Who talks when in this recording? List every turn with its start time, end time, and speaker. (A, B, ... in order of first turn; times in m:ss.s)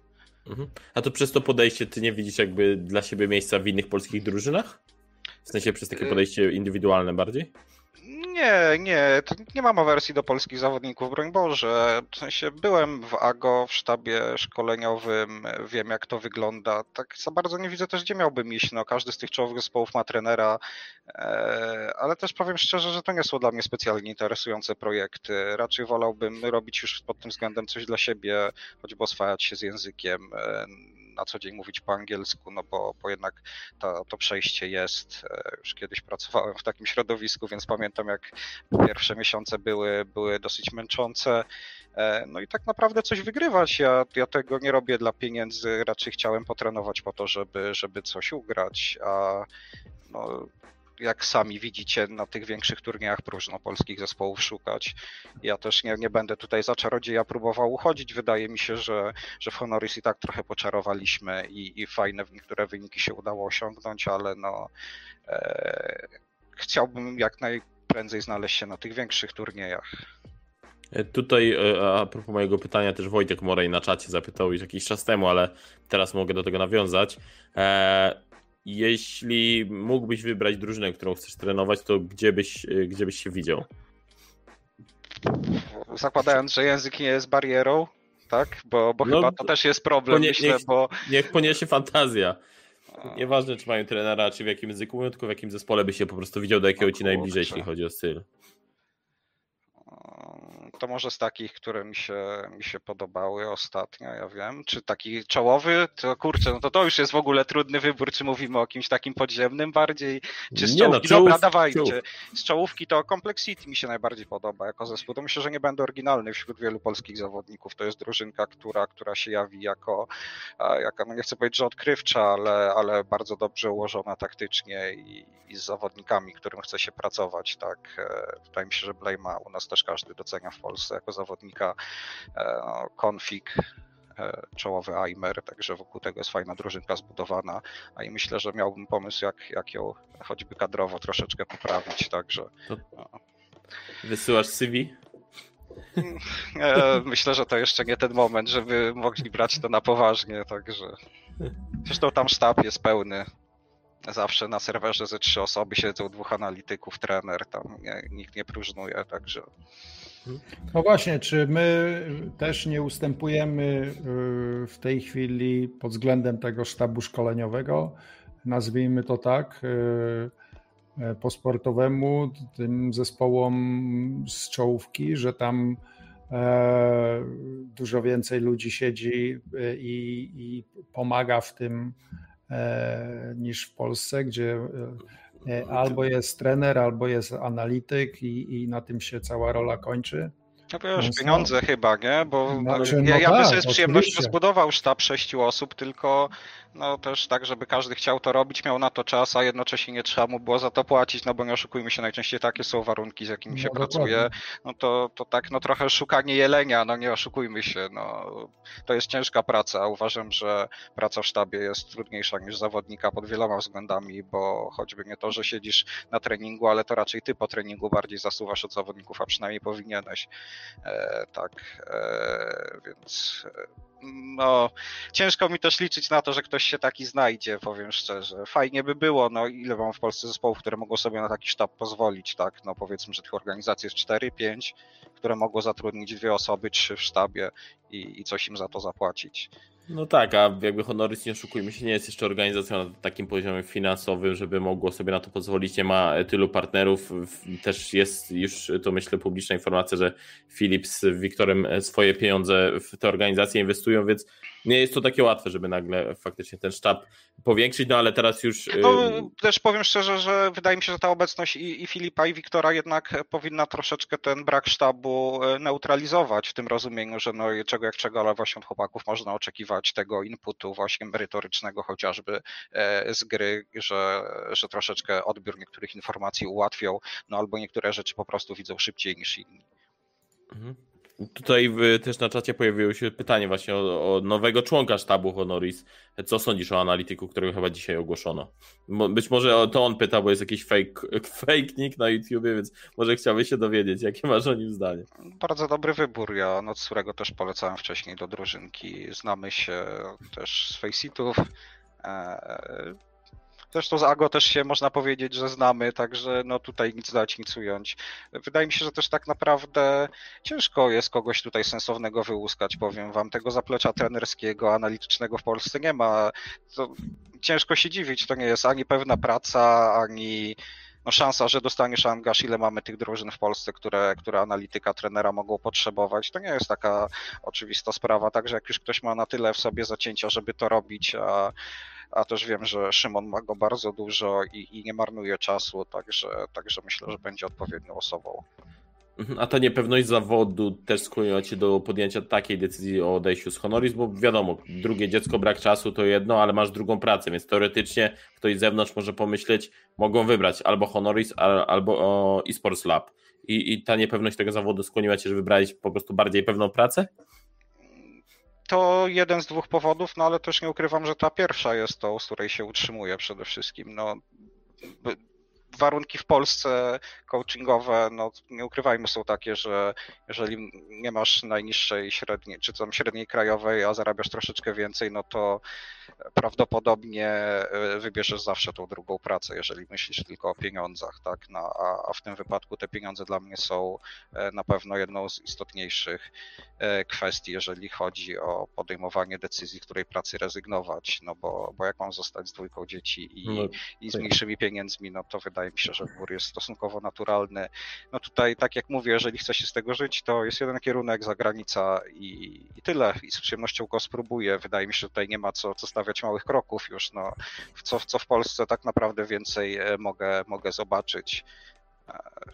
0:00.4-0:04.8 A
0:05.4-0:07.5 A
0:08.0-0:41.4 B
0:42.0-0:49.5 B
0:50.1-1:04.7 B
1:05.3-1:09.8 B
1:10.9-1:23.6 A
1:25.2-1:31.0 B
1:29.0-1:29.5 A
1:30.1-1:32.4 A
1:33.0-1:38.2 A
1:36.8-1:37.6 B
1:39.9-2:11.8 B
1:50.5-1:52.0 A
2:12.4-2:13.6 B
2:14.2-2:22.5 B
2:24.0-2:25.0 A
2:26.0-2:30.9 B
2:31.8-2:33.2 B
2:34.0-2:39.4 B
2:40.7-2:50.3 C
2:51.0-3:02.0 C
3:02.5-3:10.3 C
3:10.7-3:40.3 B
3:11.0-3:11.5 C
3:12.5-3:14.3 C
3:23.5-3:24.3 C
3:40.8-3:59.5 B
3:59.9-4:19.3 A
4:18.7-4:39.6 B
4:40.5-4:55.0 A
4:55.2-5:01.5 B
5:02.0-5:03.0 B
5:03.7-5:31.5 B
5:32.1-5:38.4 B
5:39.2-5:57.1 A
5:58.7-6:04.2 B
6:04.8-6:05.2 B
6:05.7-6:15.6 B
6:16.4-6:26.2 B
6:26.8-6:51.4 B
6:33.4-6:34.3 A